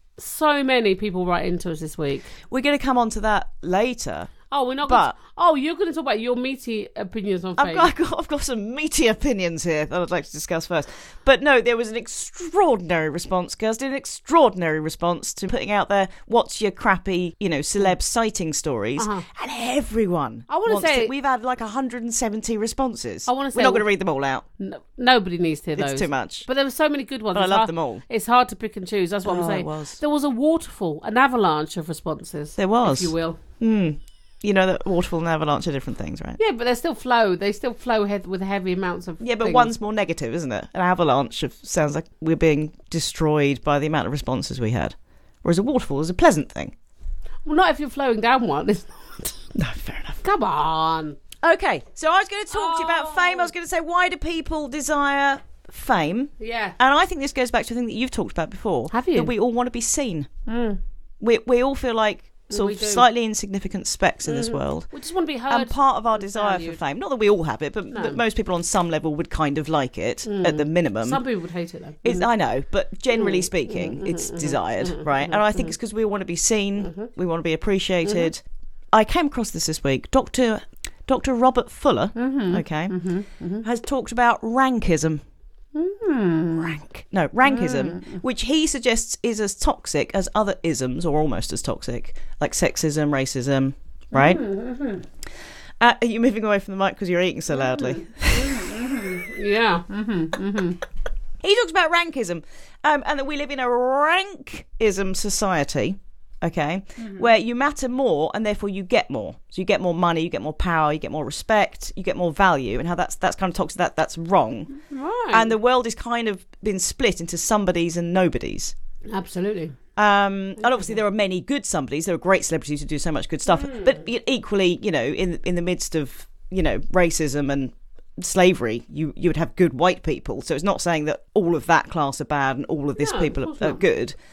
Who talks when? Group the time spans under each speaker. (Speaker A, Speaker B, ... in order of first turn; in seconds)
Speaker A: 0.2-2.3, 4.5-7.9, 19.0-19.3, 20.5-21.1, 23.3-23.9, 24.6-33.4, 36.4-39.7, 47.5-49.4, 50.2-51.2, 52.5-53.5, 56.4-56.8, 58.9-59.3, 60.5-60.8, 62.5-63.1, 64.3-66.8, 67.9-68.2, 70.2-72.3, 73.1-75.8, 76.8-77.1, 78.0-78.3, 82.2-83.7, 85.8-86.8, 87.5-88.2, 94.1-95.0, 97.5-100.8, 107.0-107.3, 114.8-115.5, 119.1-119.8, 120.6-121.0, 123.5-124.0, 133.0-133.8
Speaker B: 2.4-4.3, 4.8-5.2, 7.6-24.4, 25.8-26.5, 27.3-28.0, 29.3-30.0, 32.6-36.4, 39.2-46.7, 49.5-50.2, 51.4-60.3, 61.2-64.9, 65.5-71.2, 72.0-83.0, 83.6-85.2, 86.6-94.4, 95.8-98.8, 101.4-114.7, 115.3-118.7, 120.0-134.2